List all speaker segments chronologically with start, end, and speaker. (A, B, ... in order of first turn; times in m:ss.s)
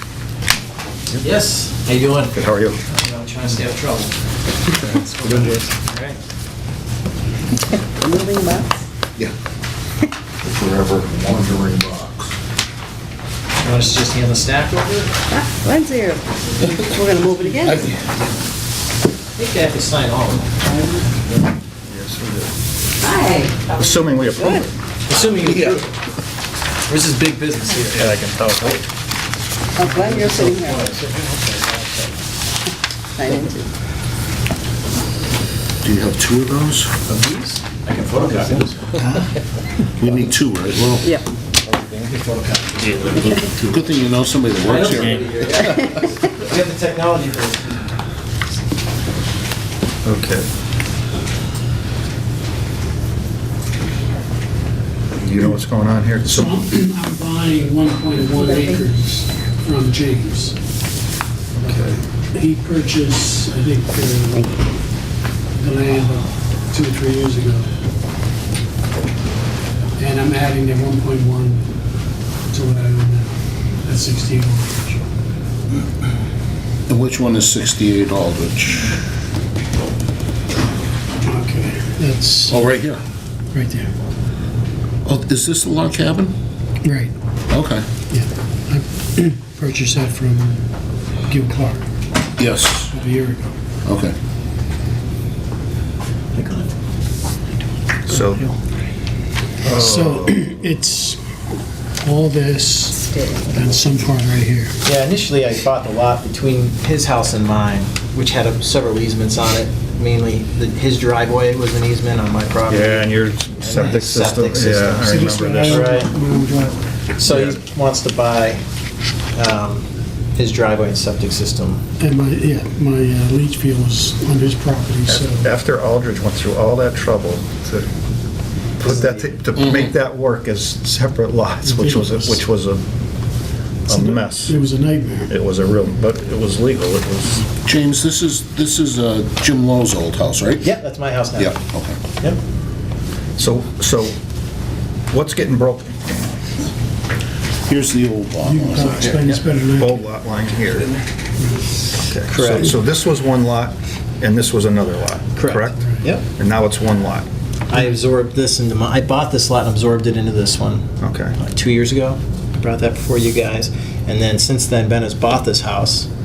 0:01.2-0:04.2 A
0:02.4-0:02.8 B
0:04.7-0:06.2 A
0:04.8-0:05.7 B
0:07.8-0:08.7 C
0:10.4-0:12.3 D
0:13.6-0:15.1 A
0:15.3-0:17.9 C
0:17.6-0:18.2 D
0:19.4-0:21.4 A
0:21.9-0:22.5 B
0:23.0-0:23.8 C
0:23.7-0:24.7 B
0:24.4-0:24.6 C
0:25.1-0:25.9 A
0:25.4-0:25.8 D
0:26.9-0:28.7 A
0:27.9-0:28.8 B
0:29.8-0:30.9 C
0:29.9-0:32.1 A
0:33.2-0:33.7 C
0:35.8-0:36.9 D
0:37.1-0:39.3 A
0:40.0-0:41.1 D
0:41.7-0:43.6 A
0:43.2-0:45.8 D
0:44.6-0:48.0 A
0:50.0-0:50.5 B
0:55.2-0:56.6 B
0:56.3-1:00.6 E
0:58.3-0:58.8 C
1:01.6-1:02.0 B
1:01.6-1:04.5 E
1:05.6-1:07.7 E
1:10.0-1:11.7 E
1:12.5-1:13.3 E
1:13.8-1:15.0 E
1:16.9-1:19.0 D
1:21.2-1:22.6 E
1:22.5-1:23.0 D
1:23.5-1:23.9 E
1:25.0-1:26.4 D
1:26.8-1:27.1 E
1:27.5-1:27.9 D
1:28.1-1:30.6 E
1:31.3-1:31.8 E
1:32.4-1:33.0 D
1:32.9-1:33.4 E
1:33.8-1:34.2 D
1:36.3-1:36.7 A
1:38.1-1:38.6 B
1:38.1-1:38.6 E
1:39.6-1:40.5 B
1:39.6-1:41.2 E
1:42.0-1:43.0 E
1:42.9-1:44.0 C
1:43.5-1:44.7 E
1:44.8-1:56.1 A
1:52.7-1:55.9 B
1:55.0-1:56.8 E
1:57.2-1:58.6 A
1:57.3-1:57.6 B
1:59.3-2:01.8 A
2:02.0-2:05.5 E
2:05.1-2:07.9 B
2:08.8-2:12.8 B
2:11.6-2:12.4 E
2:13.9-2:14.6 B
2:13.9-2:15.4 E
2:15.3-2:17.5 B
2:17.6-2:20.7 D
2:20.6-2:21.6 A
2:21.4-2:22.0 D
2:23.4-2:24.2 B
2:25.1-2:26.2 B
2:27.7-2:29.2 D
2:28.4-2:30.0 E
2:28.8-2:31.0 B
2:31.4-2:31.7 E
2:32.0-2:37.3 B
2:32.3-2:32.7 A
2:35.4-2:36.2 A
2:35.8-2:36.1 E
2:37.7-2:46.1 A
2:41.0-2:41.4 B